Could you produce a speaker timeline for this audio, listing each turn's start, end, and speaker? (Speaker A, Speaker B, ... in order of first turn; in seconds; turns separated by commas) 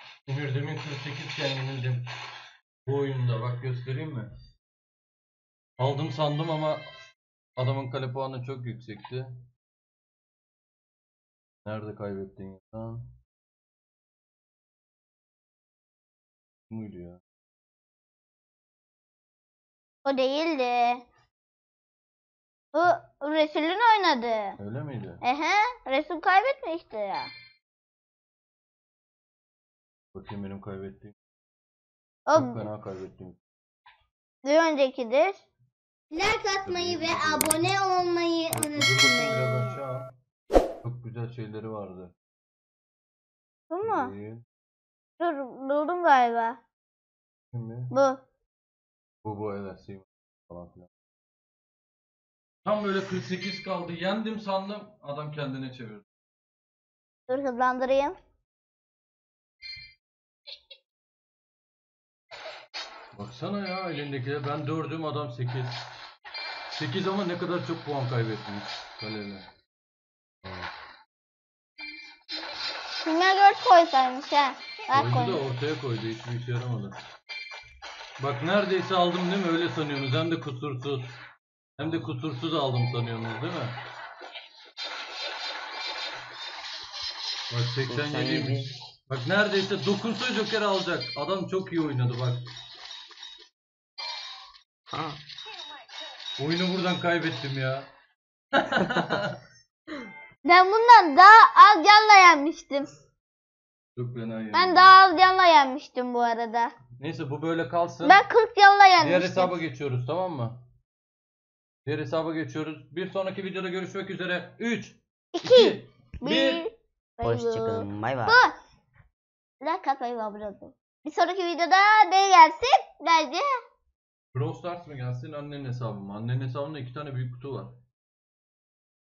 Speaker A: 0.2-2.0, Speaker A: 2.9-4.3, Speaker A: 5.8-6.8, Speaker A: 7.6-9.3, Speaker A: 11.6-13.1, Speaker A: 16.7-17.2, Speaker B: 20.0-21.1, Speaker B: 22.7-24.6, Speaker A: 24.6-25.2, Speaker B: 25.2-27.3, Speaker A: 30.1-31.1, Speaker B: 32.3-32.6, Speaker A: 32.3-33.4, Speaker B: 34.4-35.4, Speaker C: 36.1-39.7, Speaker A: 36.6-37.7, Speaker A: 38.5-40.1, Speaker A: 40.8-42.1, Speaker B: 43.7-44.1, Speaker A: 43.8-44.4, Speaker B: 45.2-46.6, Speaker A: 47.5-47.9, Speaker B: 47.9-48.2, Speaker A: 49.2-50.9, Speaker A: 52.6-56.0, Speaker B: 57.3-58.1, Speaker A: 63.1-65.8, Speaker A: 66.7-69.5, Speaker B: 73.0-75.4, Speaker A: 74.9-77.0, Speaker A: 78.2-81.1, Speaker A: 81.8-83.8, Speaker A: 87.5-92.5, Speaker D: 87.9-88.7, Speaker D: 94.9-95.2, Speaker A: 96.4-97.9, Speaker A: 98.5-99.3, Speaker B: 100.4-102.9, Speaker A: 104.0-104.9, Speaker B: 104.5-106.7, Speaker A: 107.0-108.2, Speaker B: 108.0-109.6, Speaker A: 109.0-110.6, Speaker A: 111.8-116.6, Speaker B: 115.3-118.5, Speaker D: 117.2-118.4, Speaker B: 119.6-123.5, Speaker A: 124.3-127.8